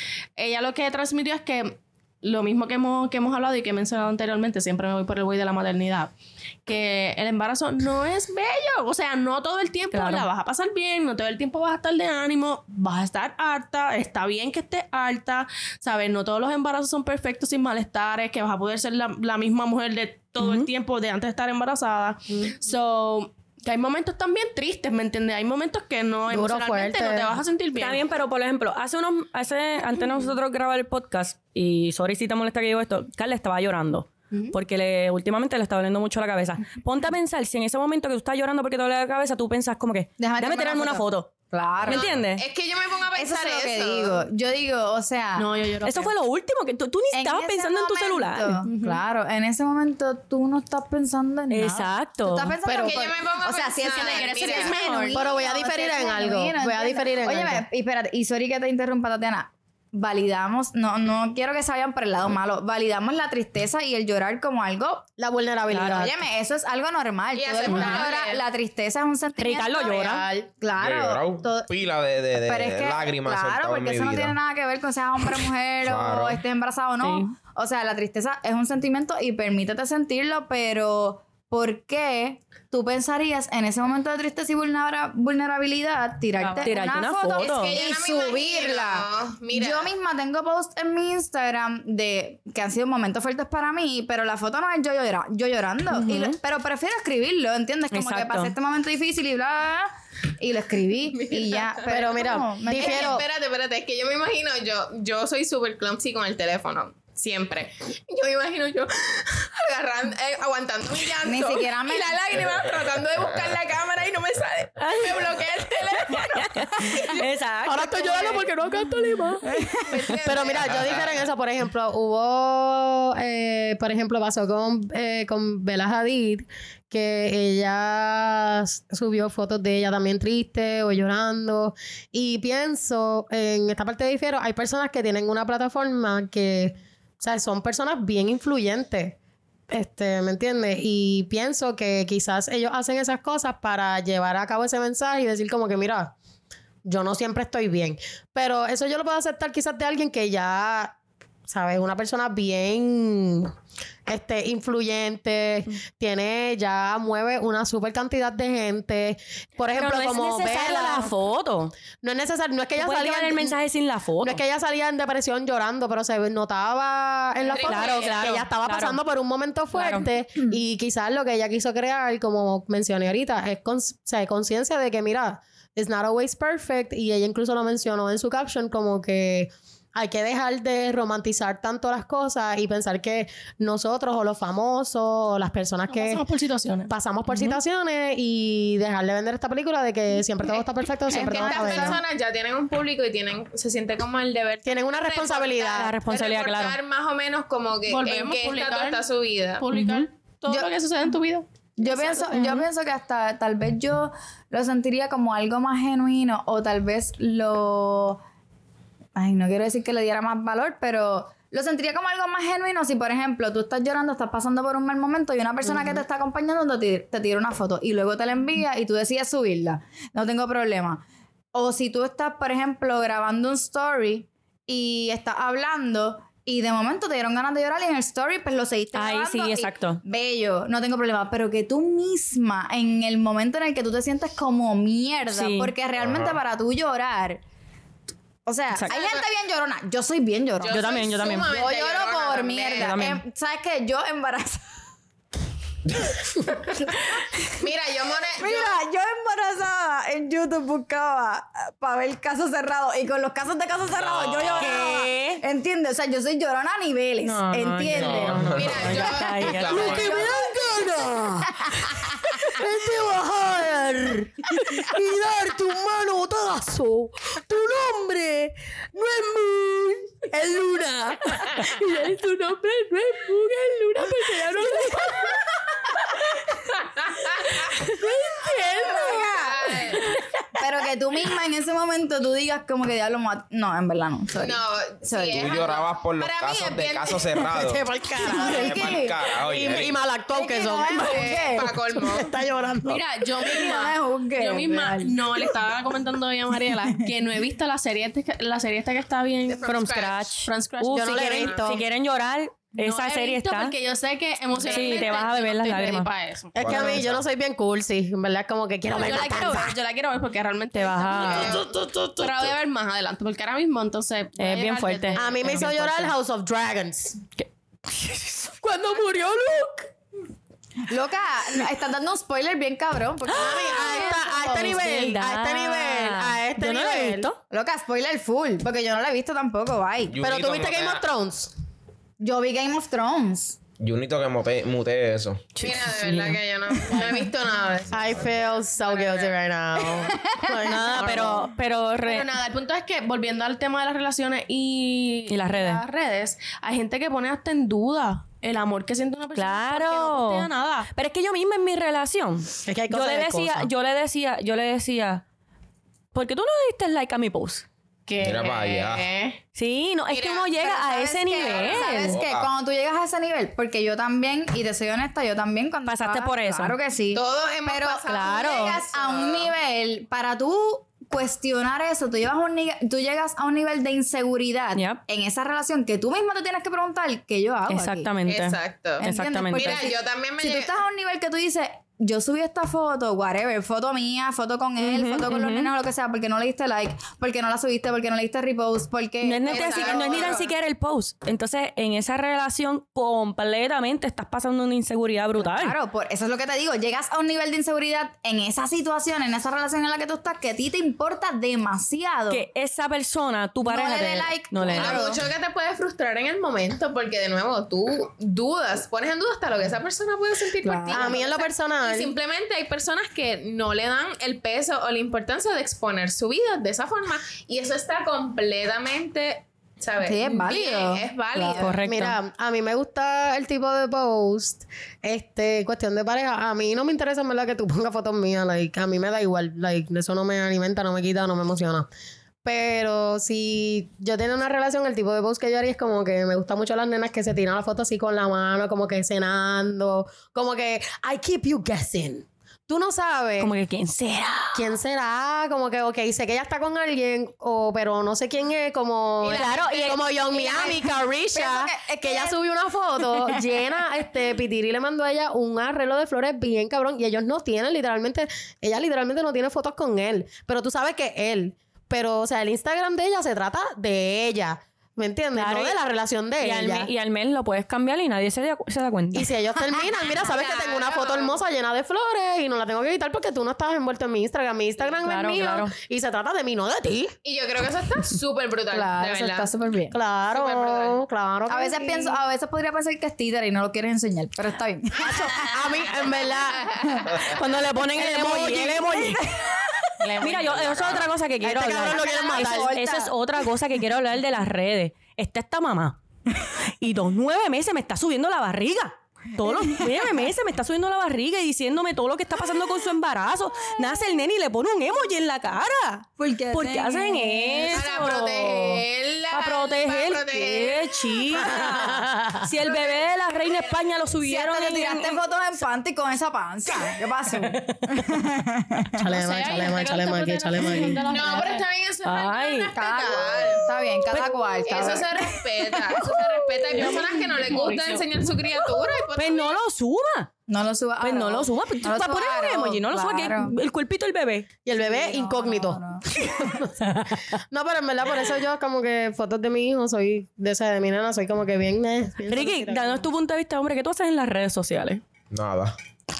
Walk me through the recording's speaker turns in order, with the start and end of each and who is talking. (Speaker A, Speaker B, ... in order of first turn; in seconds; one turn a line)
Speaker A: 0.4-6.1
Speaker A: 6.7-28.0
Speaker B: 9.9-10.2
Speaker B: 20.4-20.7
Speaker C: 26.3-27.4
Speaker B: 27.8-41.3
Speaker D: 40.2-42.1
Speaker B: 41.9-42.4
Speaker E: 41.9-44.2
Speaker D: 43.1-45.5
Speaker A: 45.4-46.1
Speaker B: 45.8-48.6
Speaker D: 47.1-65.0
Speaker A: 48.6-49.0
Speaker B: 51.5-52.5
Speaker E: 52.6-54.7
Speaker A: 53.8-55.2
Speaker C: 55.1-57.6
Speaker C: 65.2-66.2
Speaker D: 65.7-71.7
Speaker E: 67.3-68.4
Speaker B: 67.7-68.0
Speaker B: 69.4-70.3
Speaker E: 70.0-70.4
Speaker F: 70.8-74.4
Speaker D: 72.4-103.2
Speaker F: 75.8-76.4
Speaker B: 77.0-77.3
Speaker B: 86.5-87.8
Speaker E: 87.4-89.9
Speaker B: 95.9-96.4
Speaker B: 97.9-98.5
Speaker E: 101.2-101.6
Speaker C: 101.8-103.2
Speaker E: 102.7-111.5
Speaker D: 111.2-112.1
Speaker A: 111.4-117.2
Speaker B: 114.8-115.3
Speaker B: 116.0-119.3
Speaker C: 117.7-119.5
Speaker D: 119.5-119.8
Speaker E: 119.8-121.1
Speaker C: 120.1-139.2
Speaker F: 120.7-121.1
Speaker C: 139.7-146.1
Speaker C: 146.8-150.9
Speaker C: 151.5-153.5
Speaker C: 154.1-161.1
Speaker B: 159.7-161.7
Speaker C: 162.0-163.6
Speaker B: 162.8-164.4
Speaker C: 164.2-186.2
Speaker E: 167.4-168.3
Speaker B: 167.6-169.0
Speaker B: 169.7-170.1
Speaker A: 185.9-186.9
Speaker C: 186.9-192.0
Speaker B: 187.3-187.6
Speaker D: 191.1-192.0
Speaker E: 191.1-199.6
Speaker C: 194.6-195.9
Speaker B: 195.7-196.8
Speaker A: 197.9-199.0
Speaker A: 199.6-201.5
Speaker B: 199.7-200.1
Speaker D: 201.8-208.2
Speaker B: 202.3-202.7
Speaker D: 209.2-221.0
Speaker D: 221.5-237.4
Speaker B: 228.9-230.0
Speaker B: 235.3-235.7
Speaker F: 236.0-236.4
Speaker D: 238.4-240.8
Speaker E: 238.9-239.2
Speaker E: 240.6-243.0
Speaker B: 240.7-241.5
Speaker D: 241.5-244.7
Speaker B: 242.8-243.2
Speaker E: 247.5-248.8
Speaker D: 248.4-258.6
Speaker F: 253.9-254.8
Speaker B: 254.6-255.4
Speaker B: 257.2-260.1
Speaker F: 257.9-260.3
Speaker E: 258.5-260.0
Speaker C: 259.4-272.2
Speaker D: 259.7-260.6
Speaker C: 273.1-274.8
Speaker A: 274.0-275.0
Speaker A: 278.0-279.5
Speaker D: 278.8-279.4
Speaker E: 279.1-280.2
Speaker D: 280.5-285.6
Speaker E: 284.4-287.5
Speaker F: 285.3-290.0
Speaker C: 287.5-293.3
Speaker D: 288.3-289.1
Speaker D: 290.3-291.7
Speaker E: 290.9-292.3
Speaker A: 292.8-299.8
Speaker D: 293.4-295.1
Speaker E: 299.5-300.2
Speaker B: 299.6-303.7
Speaker A: 300.4-301.6
Speaker C: 300.9-301.8
Speaker E: 301.3-301.6
Speaker A: 302.8-306.8
Speaker E: 304.6-305.2
Speaker B: 304.7-306.1
Speaker C: 306.5-309.8
Speaker F: 306.6-307.2
Speaker A: 308.9-311.6
Speaker B: 310.7-311.6
Speaker E: 311.2-311.7
Speaker C: 311.5-312.2
Speaker A: 312.2-315.7
Speaker B: 314.4-316.1
Speaker C: 315.1-317.2
Speaker B: 317.4-318.8
Speaker A: 318.6-319.9
Speaker D: 320.9-324.8
Speaker B: 323.3-327.4
Speaker C: 323.3-327.3
Speaker D: 327.5-330.2
Speaker F: 330.1-331.1
Speaker C: 330.2-331.5
Speaker D: 332.2-333.6
Speaker F: 333.8-335.5
Speaker B: 335.6-336.4
Speaker E: 335.6-339.4
Speaker C: 337.9-341.5
Speaker B: 340.7-342.3
Speaker A: 342.0-350.9
Speaker B: 345.3-345.8
Speaker B: 349.3-355.2
Speaker C: 352.6-353.7
Speaker B: 356.1-357.6
Speaker A: 358.1-359.4
Speaker F: 358.2-359.1
Speaker B: 359.5-362.2
Speaker E: 360.1-360.5
Speaker D: 360.6-378.1
Speaker E: 361.4-361.9
Speaker F: 361.9-362.5
Speaker B: 365.9-366.8
Speaker E: 367.1-369.5
Speaker B: 368.1-368.8
Speaker B: 374.8-375.0
Speaker B: 377.7-379.8
Speaker E: 378.2-380.7
Speaker D: 379.0-390.5
Speaker B: 384.8-385.7
Speaker B: 389.2-395.7
Speaker E: 389.4-390.5
Speaker D: 395.4-402.4
Speaker B: 402.3-405.1
Speaker D: 403.6-405.2
Speaker E: 404.7-421.8
Speaker D: 410.6-411.2
Speaker C: 410.9-412.1
Speaker D: 420.0-421.7
Speaker B: 421.6-422.2
Speaker C: 421.8-431.9
Speaker C: 432.4-443.5
Speaker B: 443.4-444.7
Speaker C: 444.5-466.9
Speaker B: 449.2-450.0
Speaker E: 449.3-450.7
Speaker D: 450.4-450.7
Speaker D: 451.3-452.4
Speaker B: 465.3-465.8
Speaker B: 466.4-469.3
Speaker C: 469.1-477.2
Speaker E: 470.1-471.4
Speaker B: 475.0-475.7
Speaker E: 477.2-479.5
Speaker D: 478.7-479.9
Speaker C: 479.9-482.2
Speaker E: 480.3-481.0
Speaker D: 481.5-485.5
Speaker C: 485.0-486.7
Speaker B: 487.2-489.6
Speaker C: 487.9-489.1
Speaker E: 490.0-490.7
Speaker B: 490.2-508.6
Speaker F: 490.4-491.1
Speaker C: 491.4-492.8
Speaker D: 491.8-493.1
Speaker D: 499.4-499.8
Speaker D: 506.2-507.8
Speaker E: 507.7-511.3
Speaker A: 508.1-508.4
Speaker B: 509.3-515.2
Speaker D: 511.4-511.8
Speaker C: 511.4-512.5
Speaker D: 514.2-519.0
Speaker B: 517.5-517.8
Speaker C: 519.0-521.0
Speaker A: 519.1-521.7
Speaker E: 521.1-523.7
Speaker B: 522.0-522.7
Speaker D: 522.7-525.4
Speaker E: 524.6-529.5
Speaker B: 525.8-527.1
Speaker A: 526.8-528.1
Speaker B: 529.1-530.3
Speaker D: 530.5-533.5
Speaker B: 531.0-534.5
Speaker C: 534.6-543.0
Speaker D: 534.7-536.5
Speaker B: 542.3-545.0
Speaker F: 545.3-545.8